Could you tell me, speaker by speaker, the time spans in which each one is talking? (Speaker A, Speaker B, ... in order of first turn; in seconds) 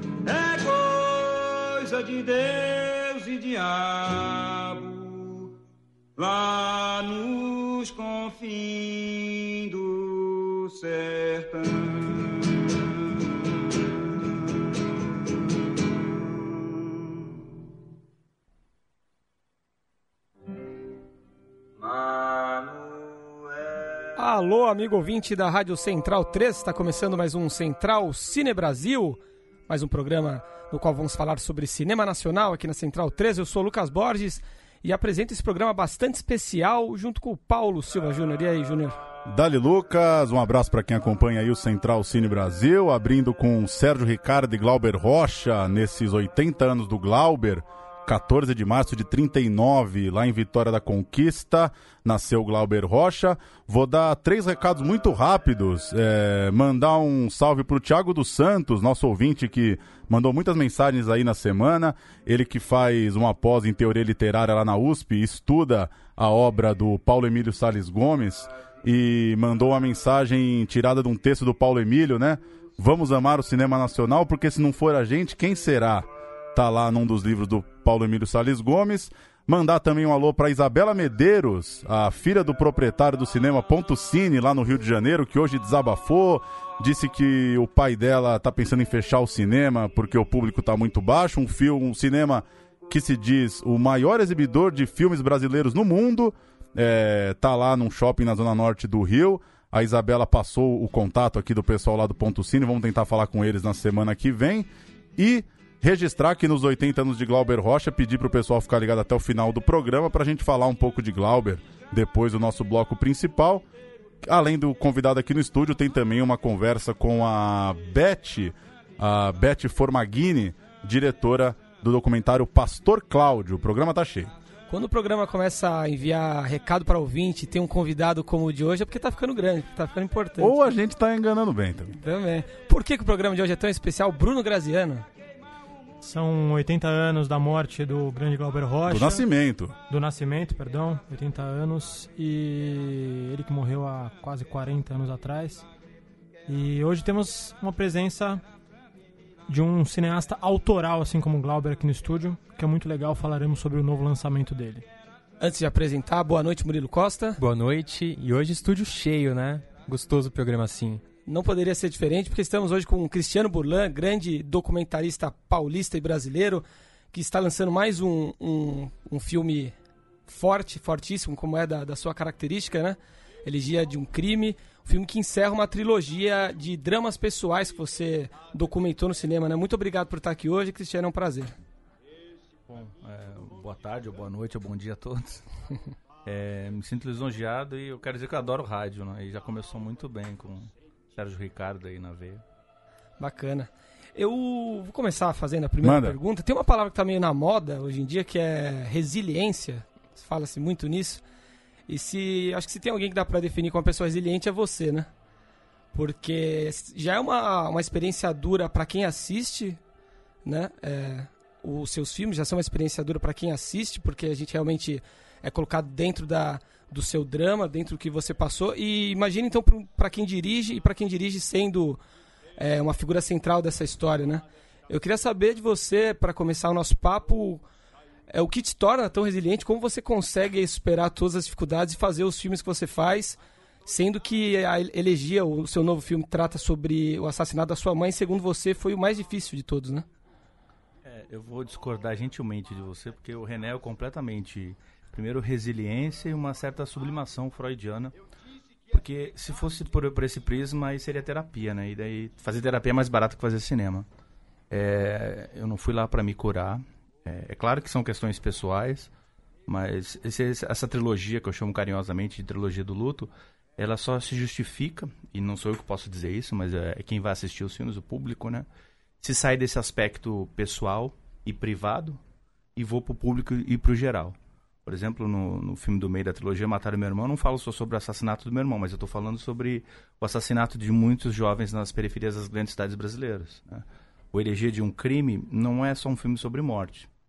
Speaker A: 0.2-5.5, 6.2-12.8, 21.8-23.7
Speaker B: 24.2-39.0, 124.7-130.6, 131.9-135.1, 155.4-157.4, 161.2-169.7, 170.3-181.5, 193.2-201.2, 201.9-205.1, 205.9-209.8, 210.4-222.0, 222.6-227.6, 228.3-240.0
Speaker C: 39.3-113.6, 114.2-124.3, 130.4-131.9, 138.9-139.7, 195.8-196.2
Speaker D: 136.0-139.3, 139.9-145.7, 146.5-148.4, 149.5-154.8
Speaker E: 157.4-161.0
Speaker F: 182.7-185.4, 186.2-192.4, 241.0-248.2, 248.9-254.1, 254.7-259.1, 259.7-268.7, 269.2-272.2, 272.8-287.1